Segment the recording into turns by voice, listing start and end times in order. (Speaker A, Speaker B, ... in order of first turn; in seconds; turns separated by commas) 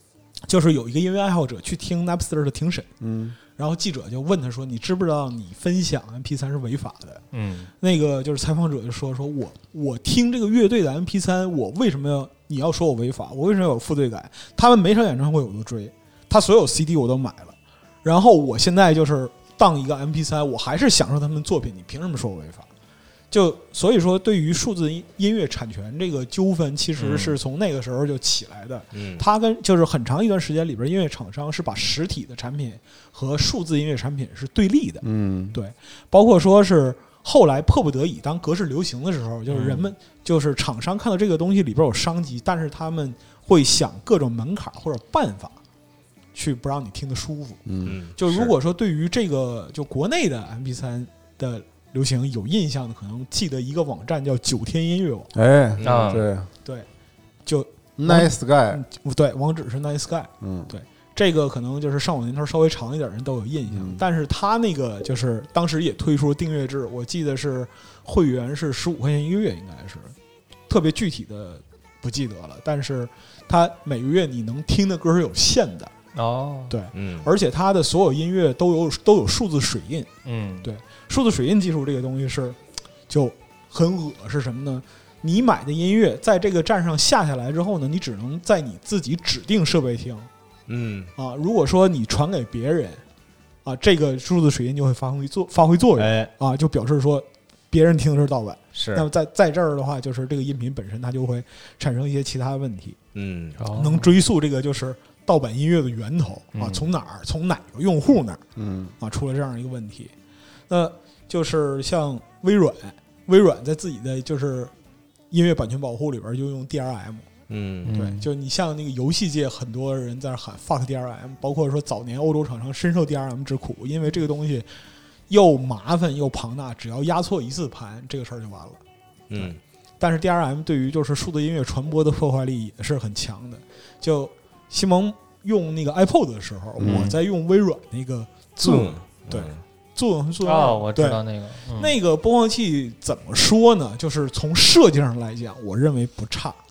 Speaker A: 0.5-2.9, Speaker B: 3.0-3.4, Speaker A: 3.5-7.2, Speaker C: 7.3-7.7, Speaker A: 7.8-22.7, Speaker A: 23.3-45.6, Speaker C: 27.0-27.4, Speaker D: 28.9-29.2, Speaker B: 35.0-35.6, Speaker C: 39.5-39.9, Speaker A: 46.3-47.6, Speaker B: 47.7-48.0, Speaker D: 47.8-48.5, Speaker A: 48.2-55.3, Speaker B: 55.3-56.5, Speaker D: 55.8-56.2, Speaker C: 55.8-56.2, Speaker A: 57.5-70.2, Speaker B: 58.0-58.8, Speaker B: 60.4-60.7, Speaker B: 63.7-64.0, Speaker A: 70.7-75.9, Speaker C: 76.2-76.8, Speaker A: 76.7-80.1, Speaker D: 76.9-77.3, Speaker C: 80.2-80.7, Speaker A: 80.6-82.6, Speaker A: 83.1-90.3, Speaker D: 90.7-91.1, Speaker A: 91.2-93.0, Speaker A: 93.6-103.0, Speaker D: 96.0-96.3, Speaker D: 98.7-99.1, Speaker D: 103.2-103.6, Speaker C: 103.6-104.2, Speaker A: 103.7-108.4, Speaker C: 106.5-106.9, Speaker B: 108.6-108.9, Speaker A: 109.0-110.1, Speaker A: 110.7-114.7, Speaker A: 115.3-117.3, Speaker D: 117.5-117.9, Speaker C: 117.8-118.3, Speaker A: 117.9-124.7, Speaker A: 125.3-128.8, Speaker D: 129.3-129.6, Speaker A: 129.4-141.2, Speaker B: 136.8-137.2, Speaker D: 138.6-139.6, Speaker C: 140.4-142.0, Speaker A: 141.7-146.6